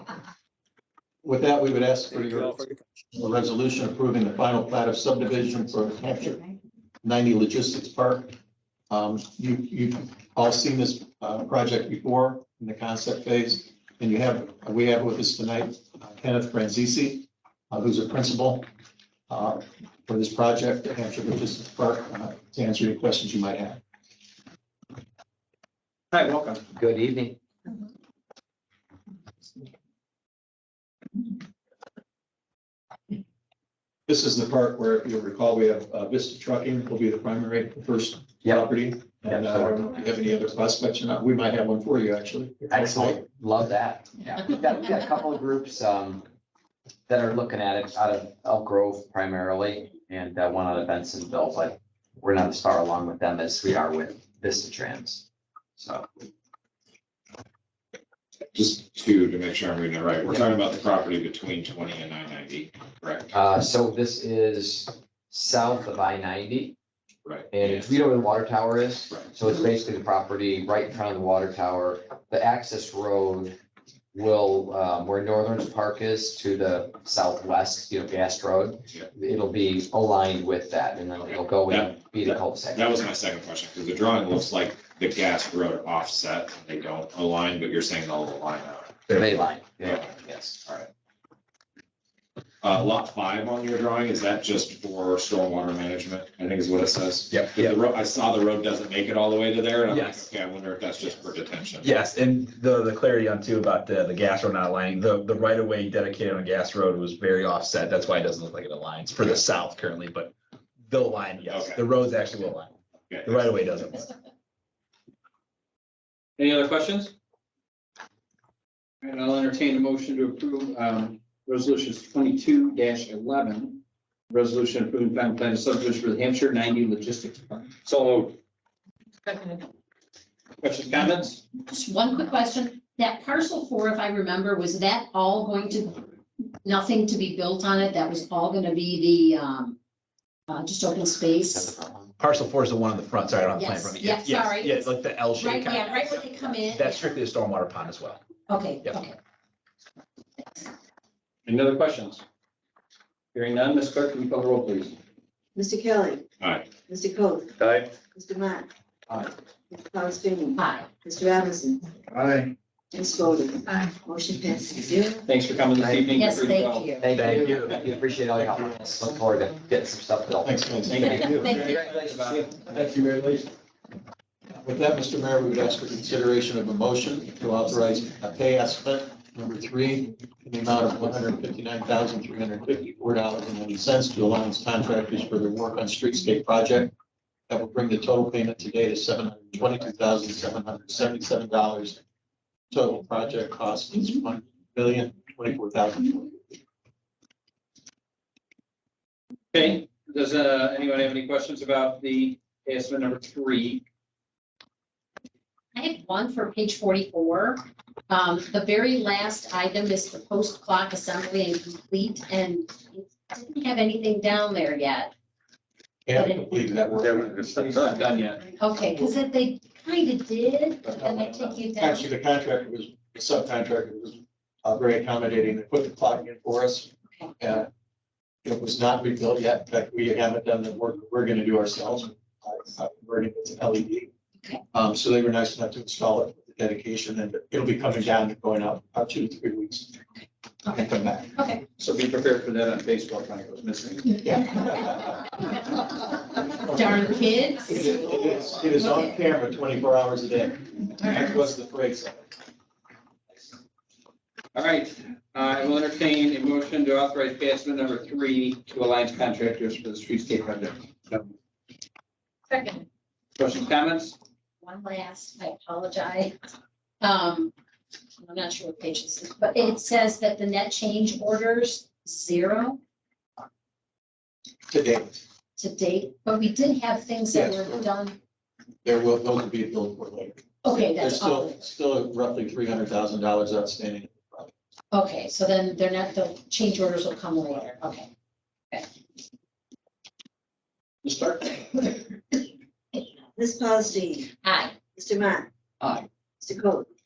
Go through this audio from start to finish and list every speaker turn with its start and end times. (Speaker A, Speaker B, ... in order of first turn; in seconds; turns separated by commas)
Speaker A: 1.2-2.6, Speaker B: 2.2-2.6, Speaker A: 3.1-6.5, Speaker A: 7.0-8.3, Speaker A: 8.9-18.6, Speaker A: 19.3-23.8, Speaker B: 26.1-26.6, Speaker C: 26.7-27.4, Speaker A: 34.1-43.2, Speaker C: 38.4-38.7, Speaker C: 39.2-39.8, Speaker C: 42.7-46.2, Speaker C: 47.1-55.2, Speaker C: 55.8-56.1, Speaker D: 58.5-63.3, Speaker C: 63.3-66.7, Speaker D: 67.2-67.9, Speaker C: 67.5-73.5, Speaker C: 74.1-82.9, Speaker D: 81.3-89.0, Speaker C: 89.1-90.9, Speaker D: 92.6-101.9, Speaker E: 97.3-97.8, Speaker E: 99.9-100.3, Speaker E: 101.8-110.3, Speaker E: 110.9-114.1, Speaker D: 111.4-111.8, Speaker D: 113.1-113.5, Speaker B: 116.4-117.1, Speaker B: 119.0-128.4, Speaker B: 130.6-131.4, Speaker F: 131.7-136.0, Speaker F: 136.6-139.8, Speaker F: 140.5-141.7, Speaker C: 141.5-142.2, Speaker E: 142.2-148.2, Speaker F: 143.5-147.2, Speaker F: 148.5-149.2, Speaker B: 151.4-152.2, Speaker B: 153.3-154.9, Speaker G: 155.5-156.2, Speaker D: 156.4-156.7, Speaker G: 156.8-157.5, Speaker B: 157.6-157.8, Speaker G: 158.1-158.7, Speaker G: 159.7-161.8, Speaker F: 160.6-160.9, Speaker B: 162.1-162.4, Speaker G: 162.9-165.2, Speaker B: 165.2-166.9, Speaker F: 166.1-167.0, Speaker C: 167.0-172.4, Speaker E: 167.1-167.8, Speaker A: 170.4-171.1, Speaker B: 170.9-172.6, Speaker F: 171.3-171.6, Speaker E: 172.6-173.4, Speaker A: 174.5-186.9, Speaker A: 187.5-192.0, Speaker A: 192.7-196.4, Speaker B: 199.5-203.8, Speaker F: 205.7-215.1, Speaker A: 216.1-217.6, Speaker F: 216.1-216.5, Speaker B: 217.0-218.4, Speaker F: 218.6-222.1, Speaker A: 220.8-227.7, Speaker A: 228.4-234.1, Speaker A: 234.7-239.9, Speaker A: 240.7-241.3, Speaker F: 240.7-241.6, Speaker B: 241.8-244.2, Speaker A: 244.2-245.3, Speaker F: 245.4-245.8, Speaker F: 246.6-249.2, Speaker A: 247.7-252.2, Speaker B: 254.5-261.2, Speaker F: 262.5-262.8, Speaker B: 263.4-264.1, Speaker F: 264.6-266.4, Speaker F: 267.0-267.5, Speaker F: 268.2-272.8, Speaker A: 274.7-275.2, Speaker F: 275.6-278.2, Speaker A: 277.3-277.8, Speaker A: 278.8-284.5, Speaker F: 280.6-281.6, Speaker F: 284.9-288.1, Speaker B: 291.0-291.9, Speaker G: 293.4-294.3, Speaker F: 294.4-294.7, Speaker G: 294.9-295.5, Speaker G: 296.4-296.9